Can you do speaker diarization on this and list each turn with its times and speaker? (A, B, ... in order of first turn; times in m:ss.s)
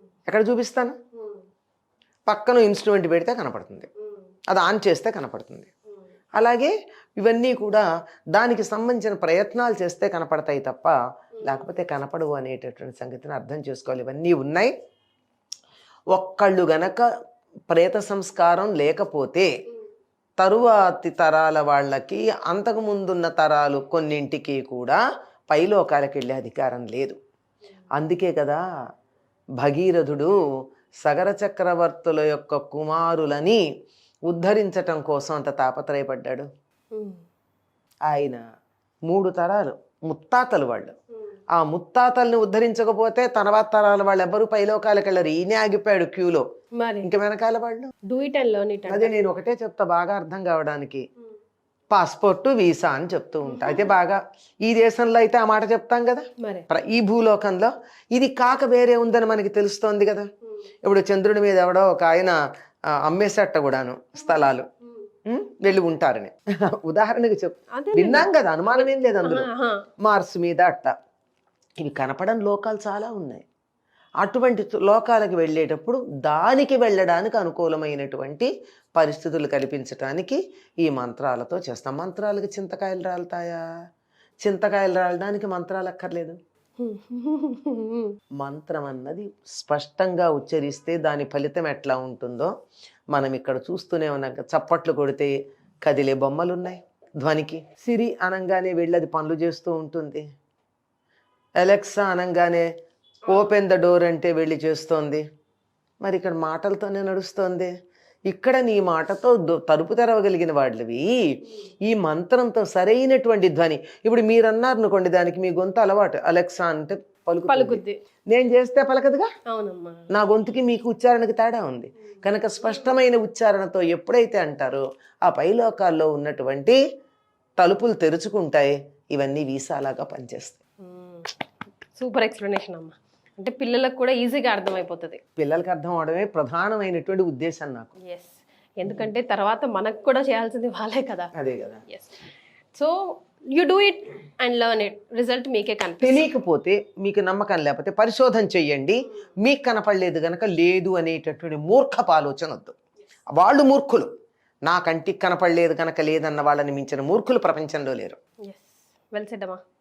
0:00.3-0:01.0 A
0:02.3-0:03.9 A
0:04.5-0:05.7 A
0:06.4-0:14.7 A
0:16.1-0:17.0 A
0:17.7-0:19.5 A
0:20.4-0:25.0 A
0:25.5-0:27.2 A
0:28.0-0:28.6 A
0:29.6-0:30.3 A
0:31.0-0:33.6 A
0:34.3-0:36.5 A
0:36.9-0:37.2 B
0:38.1-0:38.4 A
0:39.1-0:40.9 A
0:41.5-0:46.4 A
0:46.8-0:47.0 B
0:47.0-0:47.9 A
0:48.0-0:49.1 B
0:48.9-0:51.0 A
0:51.9-1:00.3 A
0:53.5-0:53.9 B
1:00.8-1:02.4 A
1:03.0-1:04.7 A
1:05.2-1:09.5 A
1:07.7-1:09.8 B
1:10.0-1:10.9 A
1:11.8-1:13.4 A
1:14.2-1:23.6 A
1:24.4-1:26.4 A
1:26.8-1:28.2 B
1:28.4-1:32.5 A
1:33.1-1:35.3 A
1:35.8-1:40.2 A
1:41.6-1:42.6 A
1:43.2-1:45.2 A
1:46.0-1:47.7 A
1:48.3-1:51.1 A
1:51.9-1:59.3 A
1:57.5-1:58.0 B
1:59.5-2:00.0 B
2:00.1-2:06.8 A
2:02.6-2:02.9 B
2:07.6-2:10.6 A
2:10.8-2:11.3 B
2:11.9-2:15.2 B
2:15.4-2:17.9 A
2:18.0-2:21.3 B
2:21.4-2:21.8 A
2:21.9-2:23.0 B
2:23.5-2:26.3 B
2:26.0-2:32.7 A
2:33.4-2:34.1 A
2:34.7-2:38.2 A
2:38.5-2:39.6 B